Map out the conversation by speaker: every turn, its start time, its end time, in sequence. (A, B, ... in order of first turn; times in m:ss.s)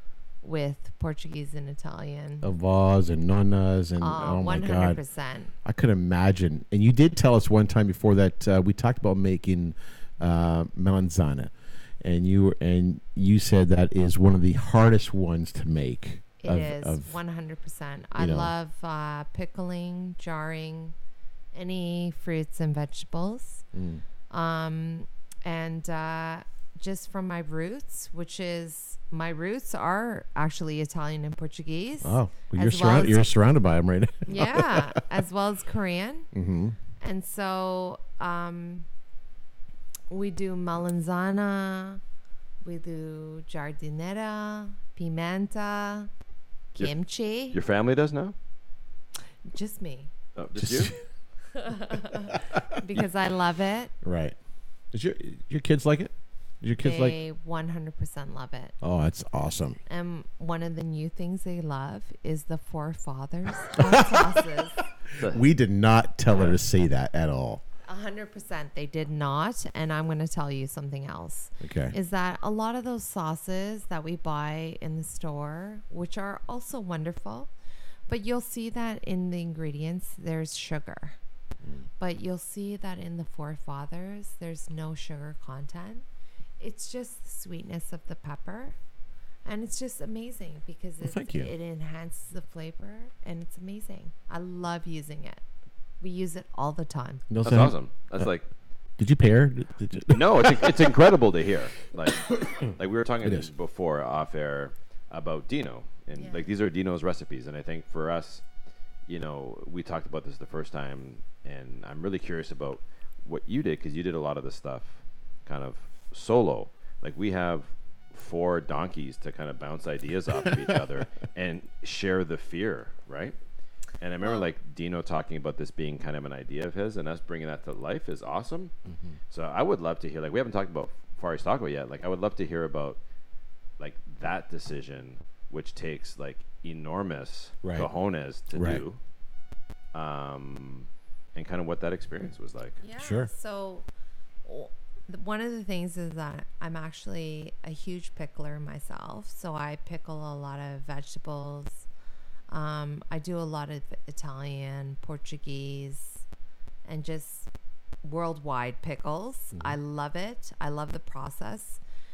0:00.4-0:02.5 A
0:02.4-0:05.0 B
0:04.0-0:05.5 A
0:05.6-0:11.5 B
0:12.0-0:17.2 B
0:16.4-0:21.0 A
0:18.2-0:18.5 B
0:21.5-0:23.6 A
0:23.7-0:24.0 B
0:24.3-0:33.3 A
0:32.0-0:35.0 B
0:34.3-0:36.3 A
0:36.3-0:36.8 B
0:37.0-0:38.9 A
0:40.1-0:42.0 A
0:42.6-0:46.1 A
0:46.8-0:47.6 A
0:47.5-0:48.4 C
0:49.5-0:50.1 A
0:50.4-0:50.9 C
0:50.6-0:51.0 B
0:51.5-0:53.9 A
0:52.3-0:52.8 B
0:54.0-0:54.4 B
0:54.9-0:57.2 B
0:56.8-0:58.7 A
0:58.8-0:59.8 B
0:59.9-1:04.8 A
1:03.7-1:04.4 B
1:05.2-1:05.4 C
1:05.2-1:07.6 B
1:07.9-1:17.5 A
1:11.6-1:12.0 B
1:18.1-1:21.2 A
1:22.0-1:26.0 A
1:26.6-1:28.8 A
1:29.4-1:35.4 A
1:31.0-1:31.5 B
1:36.0-1:37.2 A
1:37.3-1:38.3 B
1:37.4-1:38.5 C
1:39.0-1:40.9 B
1:40.1-1:48.4 C
1:43.2-1:43.5 B
1:46.2-1:46.5 A
1:49.1-2:03.4 C
2:04.0-2:08.7 C
2:09.3-2:13.0 C
2:13.8-2:19.0 C
2:17.6-2:17.9 B
2:18.5-2:18.8 B
2:19.9-2:22.8 C
2:22.8-2:23.9 A
2:23.0-2:23.3 B
2:24.4-2:31.9 A
2:32.5-2:36.2 A
2:36.8-2:37.5 A
2:38.0-2:41.8 A